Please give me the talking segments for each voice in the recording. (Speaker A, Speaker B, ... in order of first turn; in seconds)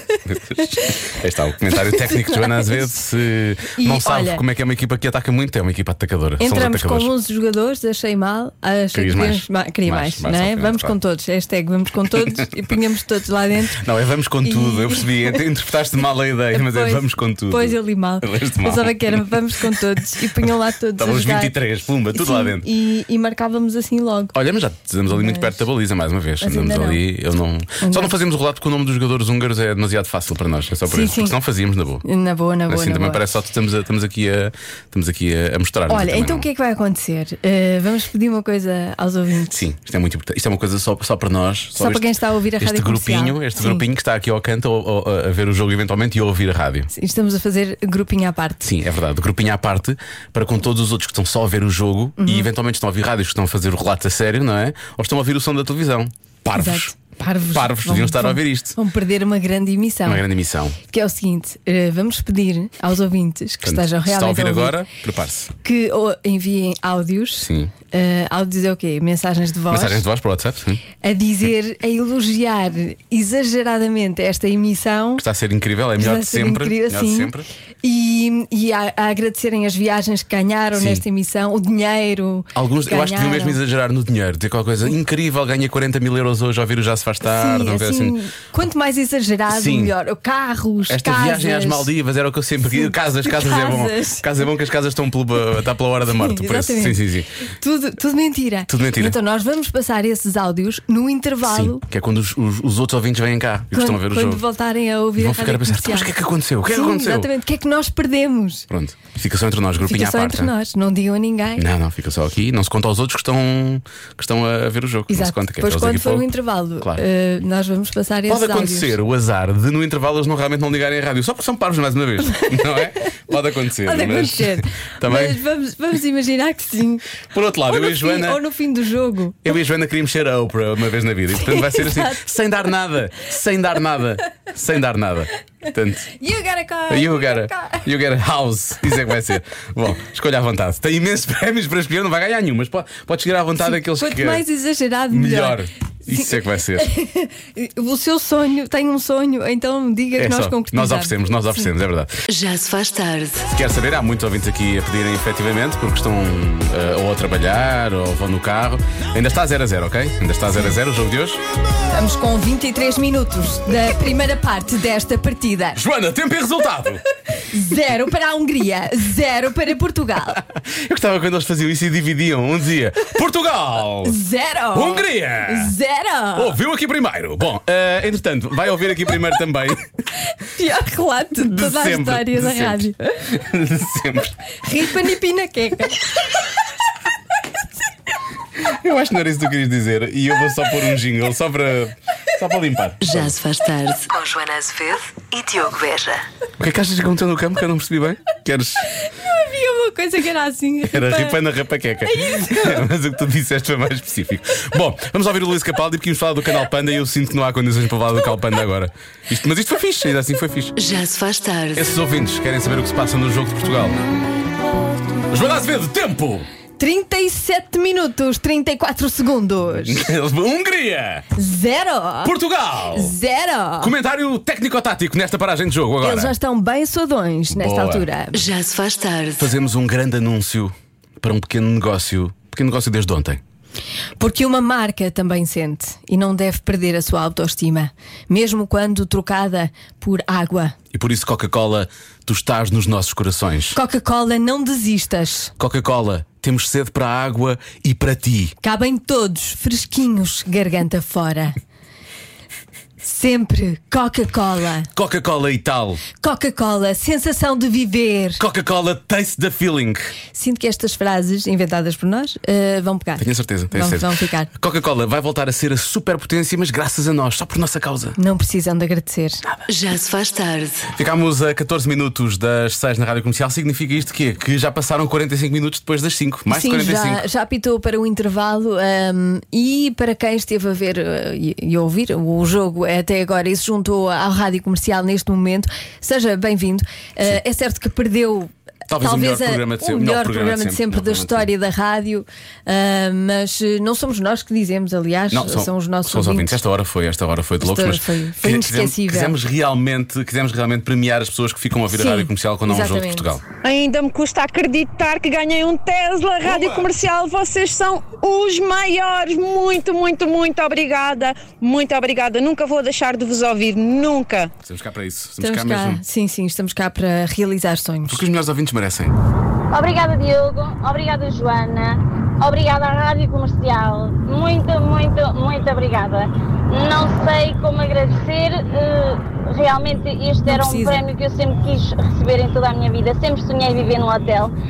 Speaker A: 0.2-7.1, 8.9-11.0, 12.2-12.4, 13.8-19.9, 21.0-22.7, 24.3-32.0, 32.7-36.5, 39.5-46.9, 48.6-56.9, 57.5-58.8, 60.1-60.8, 63.6-65.5, 67.4-67.7, 69.7-70.8, 75.2-77.5, 80.7-81.0, 82.5-88.2, 89.5-89.9, 90.9-97.3, 98.7-99.2, 101.4-104.4, 105.2-107.3, 108.7-110.5, 111.6-116.3, 118.3-125.4, 127.3-128.4, 129.4-136.1, 136.9-144.5, 145.1-146.9, 150.2-152.2, 153.5-161.4, 165.8-167.0, 170.3-174.2, 174.7-175.8, 176.3-179.9, 181.4-184.3, 188.6-193.4, 196.6-198.9, 200.9-210.8, 211.8-214.0, 215.3-216.5, 219.8-221.3, 222.2-223.2, 223.8-226.3, 227.5-228.1, 229.4-233.4, 240.9-243.8, 245.6-248.6, 254.9-256.0, 258.4-260.1, 263.2-268.2, 270.9-277.2, 288.9-291.5, 295.3-303.4, 314.6-316.0, 318.1-319.1
Speaker B: 0.6-0.9, 1.8-3.0, 3.7-4.4, 6.4-13.8, 14.4-15.4, 16.5-21.6, 22.1-24.3, 25.1-25.6, 26.4-27.0, 27.8-28.1, 30.9-31.4, 32.0-33.2, 35.9-39.6, 41.8-43.9, 46.9-48.7, 52.2-52.5, 56.5-60.2, 60.9-64.8, 65.6-70.0, 71.0-75.2, 76.0-83.6, 87.2-91.9, 92.7-94.3, 96.1-101.8, 103.7-106.1, 106.7-108.7, 109.8-111.7, 115.1-119.0, 123.8-127.1, 127.7-129.4, 131.4-132.2, 136.2-137.9, 143.6-151.7, 161.9-165.8, 167.3-170.4, 174.0-176.6, 180.3-183.3, 184.6-186.4, 199.0-201.4, 202.1-202.8, 216.8-220.0, 221.4-222.3, 222.9-223.9, 226.0-228.4, 234.2-240.8, 243.7-245.5, 248.6-251.6, 253.0-254.9, 256.2-258.4, 260.3-264.5, 268.2-269.4, 276.5-296.6, 297.6-299.4, 301.9-303.3, 315.4-318.2, 330.5-331.0
Speaker C: 152.3-153.5, 193.0-196.2, 210.8-211.9, 228.3-229.5, 269.7-270.9
Speaker D: 303.6-314.5
Speaker E: 319.7-334.5